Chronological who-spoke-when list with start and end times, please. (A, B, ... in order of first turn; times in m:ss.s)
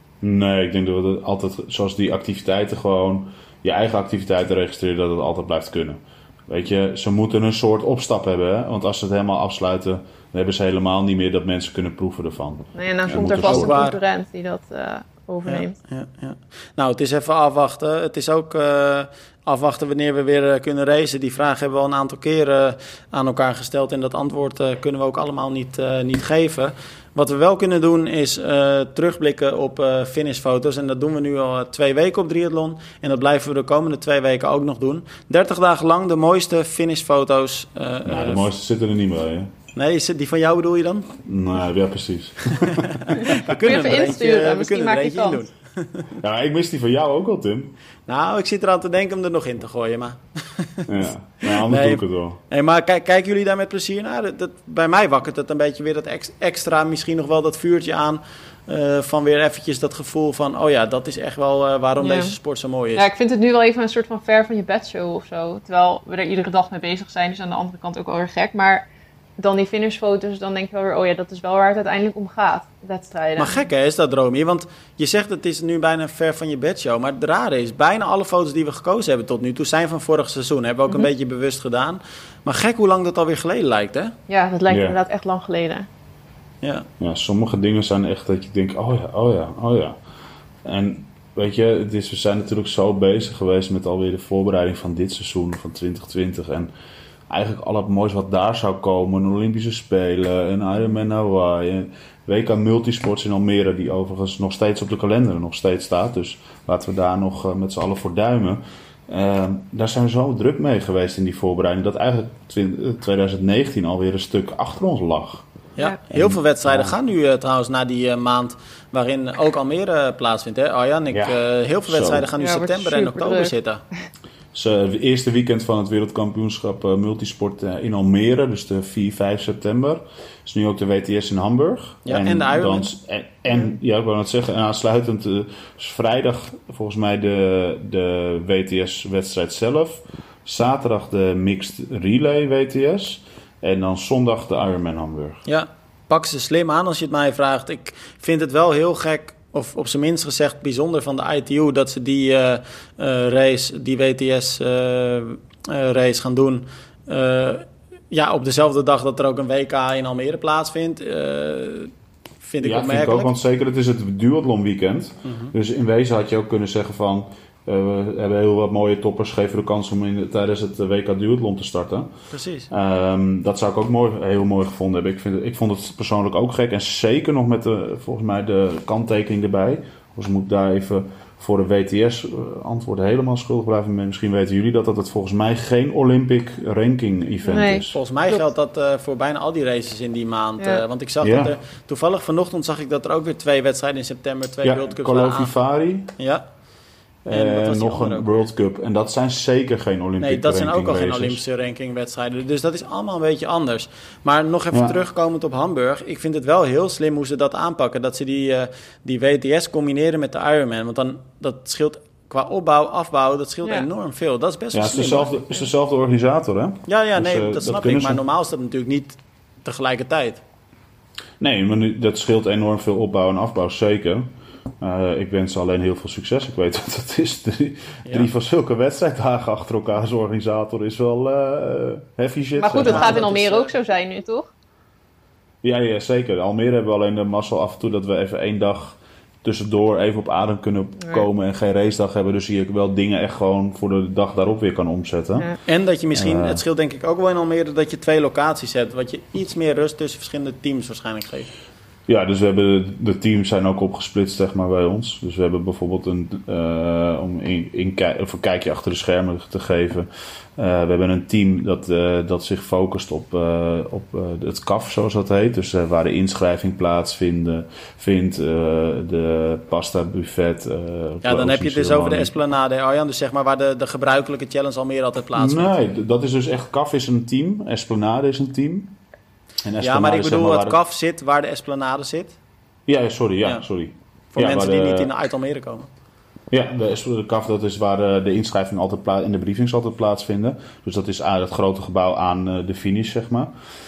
0:00.2-0:13.9 A
0:12.8-0:15.8 B
0:13.2-0:14.0 C
0:15.5-0:38.5 C
0:38.1-0:39.5 A
0:39.8-0:41.2 C
0:41.2-0:43.4 A
0:42.6-0:46.2 C
0:43.2-0:45.4 B
0:46.2-0:47.8 A
0:48.1-0:50.9 C
0:50.9-0:52.4 A
0:51.5-1:03.1 C
1:02.0-1:02.4 B
1:03.0-1:08.9 B
1:09.4-1:13.6 B
1:13.4-1:24.2 C
1:24.3-1:25.9 B
1:24.7-1:25.0 A
1:26.6-1:26.9 C
1:27.0-1:30.0 A
1:30.6-1:36.7 A
1:37.3-1:55.5 A
1:55.8-2:03.8 C
1:56.1-1:57.0 A
2:01.1-2:02.3 A
2:02.3-2:03.6 B
2:04.5-2:25.4 A
2:12.0-2:12.9 C
2:25.5-2:43.3 C
2:42.6-2:52.1 A
2:45.2-2:45.5 C
2:52.3-2:52.7 C
2:52.7-3:08.0 A
3:07.4-3:08.4 B
3:07.9-3:15.5 C
3:10.6-3:10.8 B
3:11.2-3:11.5 A
3:14.6-3:16.1 A
3:16.2-3:16.4 C
3:17.2-3:21.4 A
3:17.3-3:18.3 C
3:20.2-3:35.4 C
3:34.7-3:38.2 A
3:36.9-3:40.4 C
3:41.4-3:53.4 A
3:52.6-3:54.5 B
3:52.8-3:53.7 C
3:55.6-4:05.6 A
4:05.7-4:11.5 C
4:06.1-4:06.6 A
4:12.1-4:32.3 A
4:31.2-4:35.7 C
4:35.4-4:39.0 A
4:39.6-4:40.8 A
4:39.8-4:42.4 C
4:42.9-4:45.1 A
4:44.3-4:45.9 C
4:46.5-4:53.5 A